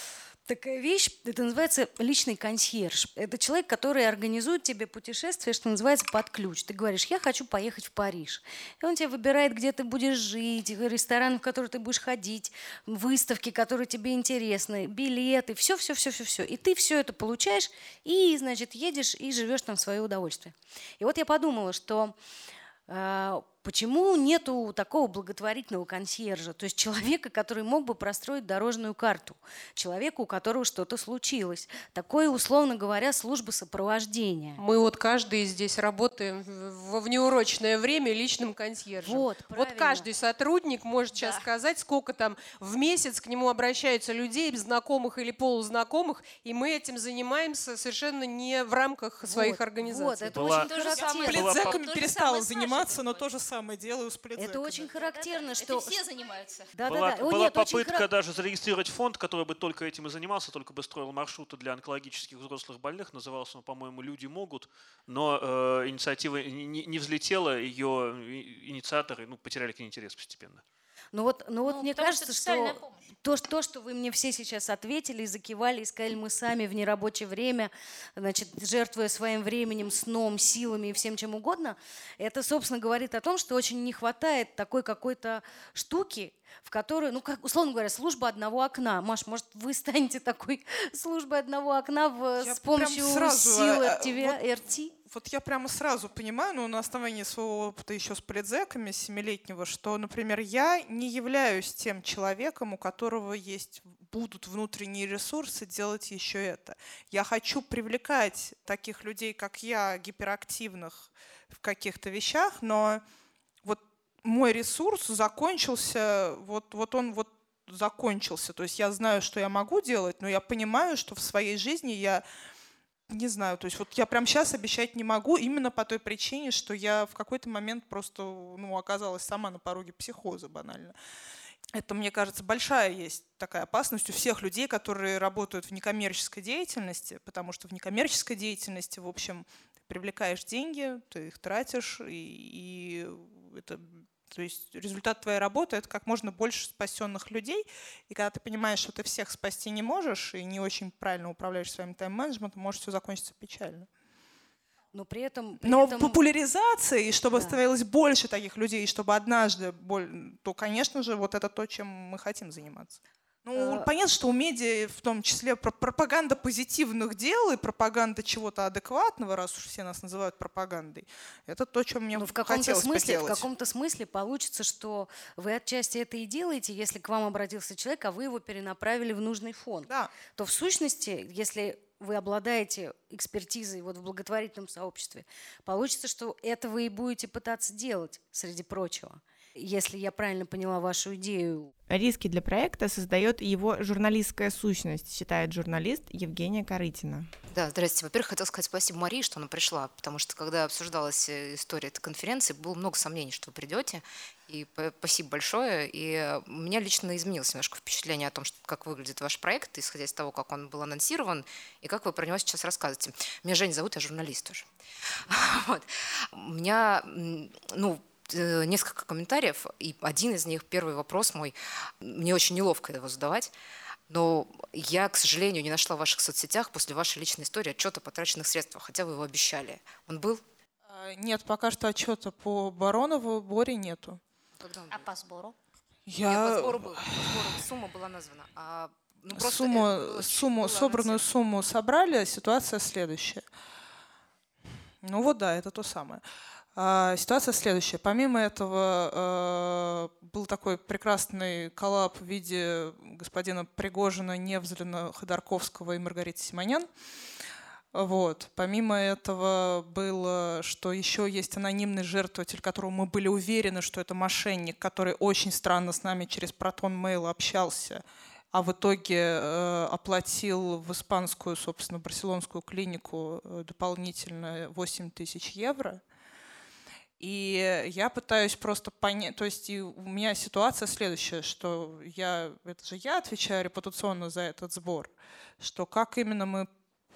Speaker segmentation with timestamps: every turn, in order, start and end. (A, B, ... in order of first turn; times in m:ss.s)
0:00.4-0:22.2 A
0:22.9-0:34.6 A
0:34.6-0:50.3 B
0:39.0-0:40.1 A
0:41.1-0:41.4 C
0:49.2-0:51.6 A
0:50.3-0:50.7 D
0:50.4-0:53.3 C
0:51.3-0:54.9 E
0:51.3-0:51.7 D
0:54.4-0:56.0 A
0:54.9-0:56.7 C
0:56.8-0:58.1 A
0:56.9-1:10.6 D
1:11.1-1:34.9 A
1:11.7-1:13.1 C
1:32.4-1:34.4 E
1:35.0-1:53.0 E
1:53.6-2:02.2 E
2:03.1-2:11.0 E
2:11.7-2:33.9 E
2:34.9-2:36.2 A
2:35.6-2:53.5 E
2:37.3-2:37.6 A
2:43.6-2:43.9 A
2:52.1-3:11.7 A
2:59.9-3:00.1 E
3:11.9-3:17.3 F
3:17.5-3:34.7 G
3:35.2-3:43.5 G
3:44.1-3:50.4 G
3:50.9-3:54.2 E
3:54.6-3:55.1 G
3:54.9-3:55.6 C
3:56.1-3:57.6 E
3:56.2-4:01.3 G
3:59.3-4:03.5 E
4:05.0-4:06.2 E
4:06.8-4:16.9 E
4:17.9-4:36.0 E
4:37.2-4:46.7 E